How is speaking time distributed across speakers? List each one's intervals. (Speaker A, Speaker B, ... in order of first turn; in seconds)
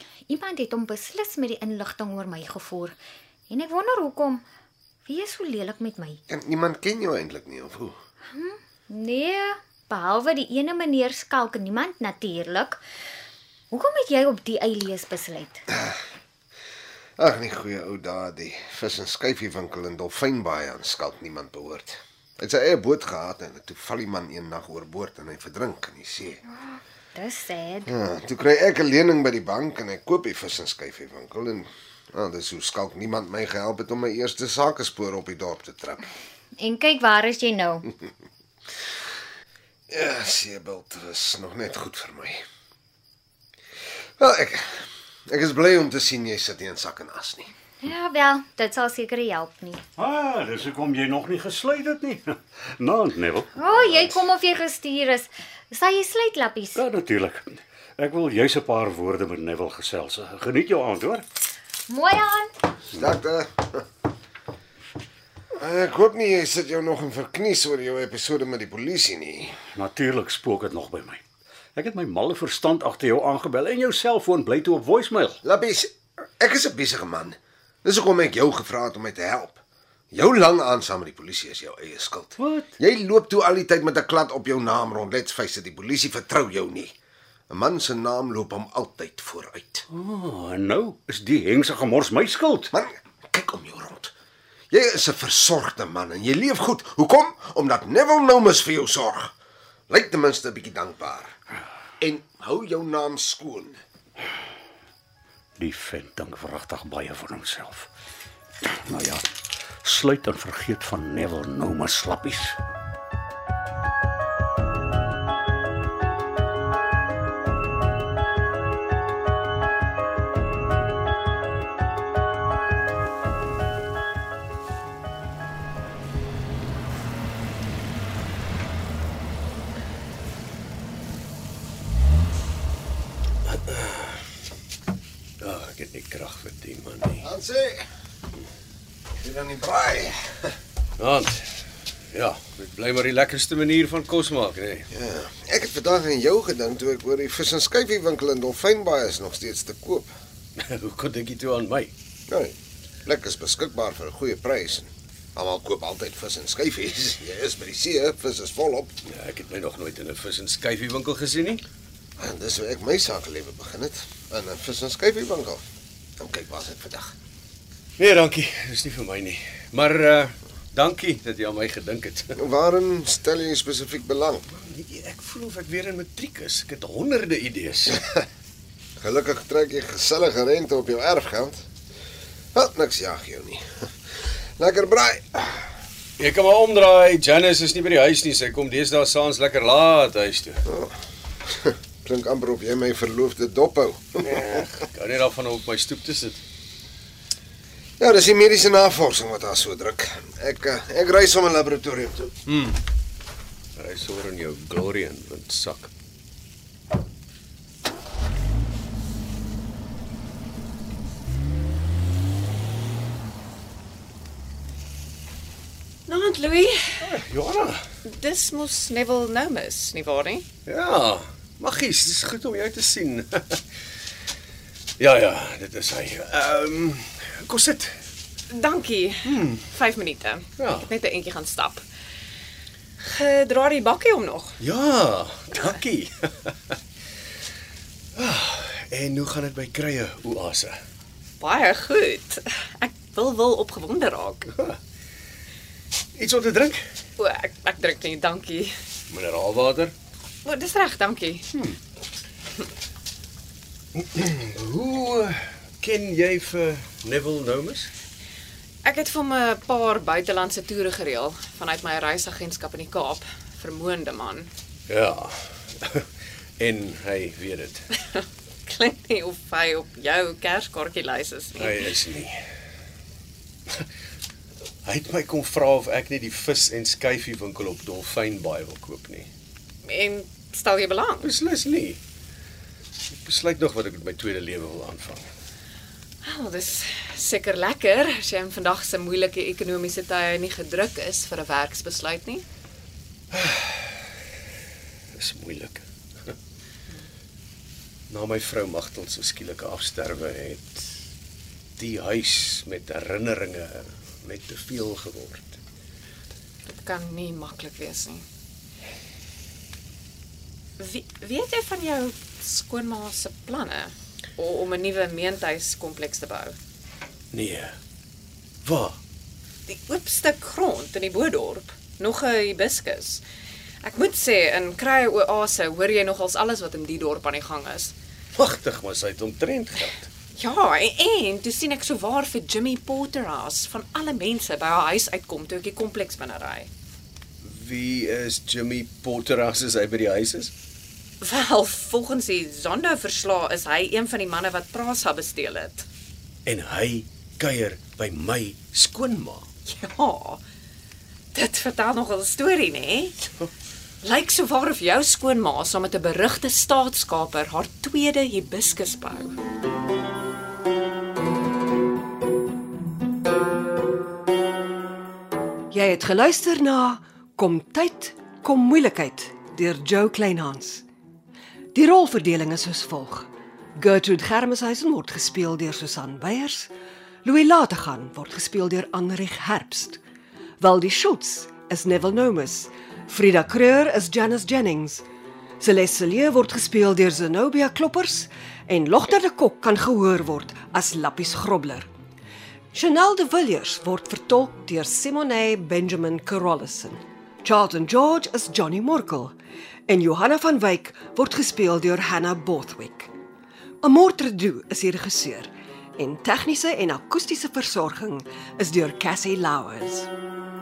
Speaker A: 0.3-3.0, 3.5-4.4, 5.1-6.2, 8.3-12.8, 13.7-15.6, 26.7-27.9, 36.6-37.9, 47.8-49.8, 53.6-56.8, 61.9-62.5
Speaker B: 6.3-8.0, 17.2-26.4, 27.9-36.1, 39.9-42.4, 44.2-47.5, 62.9-63.8, 65.6-69.6, 75.4-79.6, 80.1-87.0, 87.5-89.9, 92.7-94.1, 94.7-99.3, 99.9-101.3, 102.0-103.8, 137.2-137.9, 139.2-140.5, 144.9-150.1, 152.3-152.5, 153.1-158.9, 162.2-165.6, 166.2-167.1, 172.4-174.5, 179.0-181.7, 182.6-183.7, 184.6-185.7, 190.7-190.9, 191.5-194.6, 198.0-202.4
Speaker C: 50.0-53.5, 56.8-61.2, 69.6-71.2, 71.8-75.4, 82.4-82.7, 89.9-92.7, 105.6-107.9, 108.6-109.2, 109.8-112.6
Speaker D: 133.4-134.3, 135.4-137.3, 141.0-141.5, 142.1-144.9, 150.6-151.9, 159.1-161.6, 168.0-172.4, 174.5-178.2, 186.2-190.6, 194.2-196.4, 202.5-202.8, 203.8-205.9, 217.0-217.8, 220.7-223.6, 225.0-228.0, 229.3-229.7, 230.6-230.9, 234.6-236.8, 238.2-240.8, 246.2-246.8, 249.1-249.9, 253.9-257.9, 264.9-266.1, 266.6-267.9, 271.6-272.4, 274.9-279.3, 281.2-282.0, 283.1-285.3, 293.3-294.0, 295.1-296.4, 298.1-300.9, 301.8-305.6, 317.3-317.8, 318.6-319.0, 328.4-330.1, 337.4-340.5, 346.5-349.5
Speaker E: 216.1-217.1, 218.0-220.5, 228.5-231.8, 233.0-234.6, 241.4-244.5, 247.2-248.7, 250.4-251.5, 258.8-264.5, 268.0-272.0, 279.8-281.3, 286.2-292.4, 306.7-308.2, 310.8-316.6, 319.7-323.2, 323.8-327.9, 330.4-336.7, 341.2-345.9, 349.7-350.4, 351.3-353.3, 354.0-359.4
Speaker F: 365.7-370.9, 371.7-376.7, 377.2-380.0, 380.6-385.1, 385.6-391.9, 392.7-399.4, 399.9-403.1, 403.8-410.1